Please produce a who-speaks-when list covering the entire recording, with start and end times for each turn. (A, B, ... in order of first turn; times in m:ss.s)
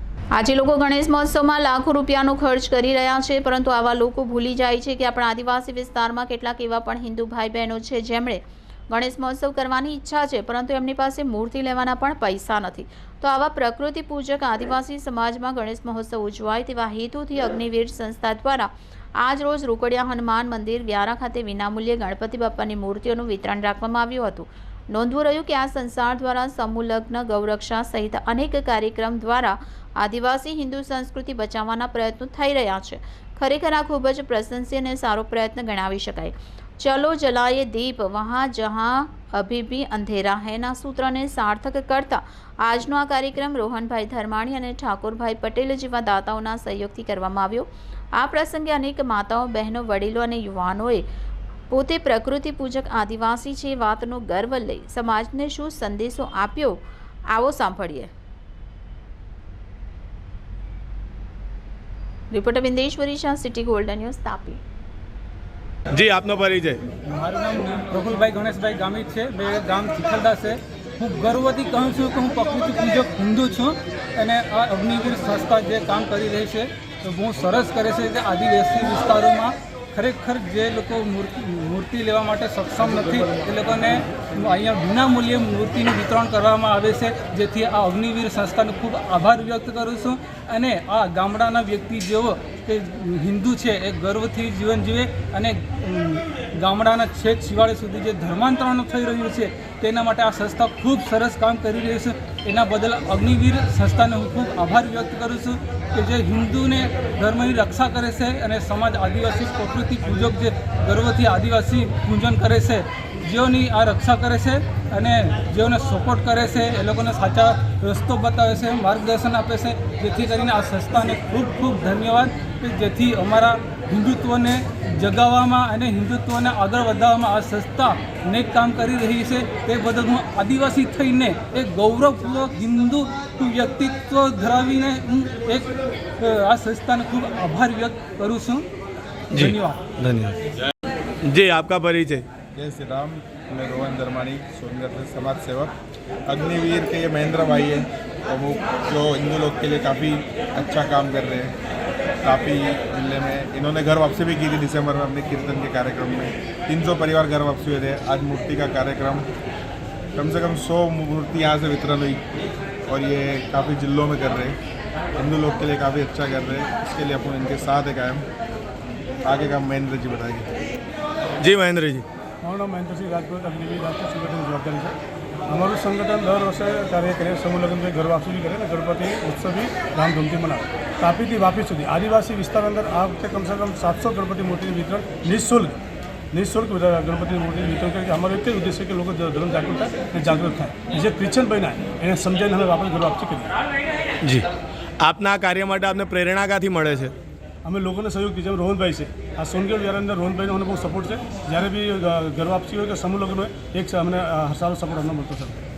0:00.4-0:51.0 A
0:51.7-0:56.8 A
0:57.3-0:58.1 A
1:02.3-1:04.6 A
1:05.9-1:06.8 B
1:07.1-2:18.7 C
2:19.3-2:19.8 C
2:19.3-2:20.4 B
2:21.2-2:22.2 B
2:22.6-2:25.7 D
2:26.3-2:31.6 D
2:32.2-2:39.3 D
2:40.2-2:42.2 D
2:42.9-2:44.6 D
2:45.2-2:48.3 D
2:49.2-2:50.5 D
2:51.4-2:52.0 B
2:52.4-2:55.0 E
2:55.5-3:05.8 E
3:06.3-3:13.5 E
3:15.0-3:17.1 B
3:17.6-3:25.6 E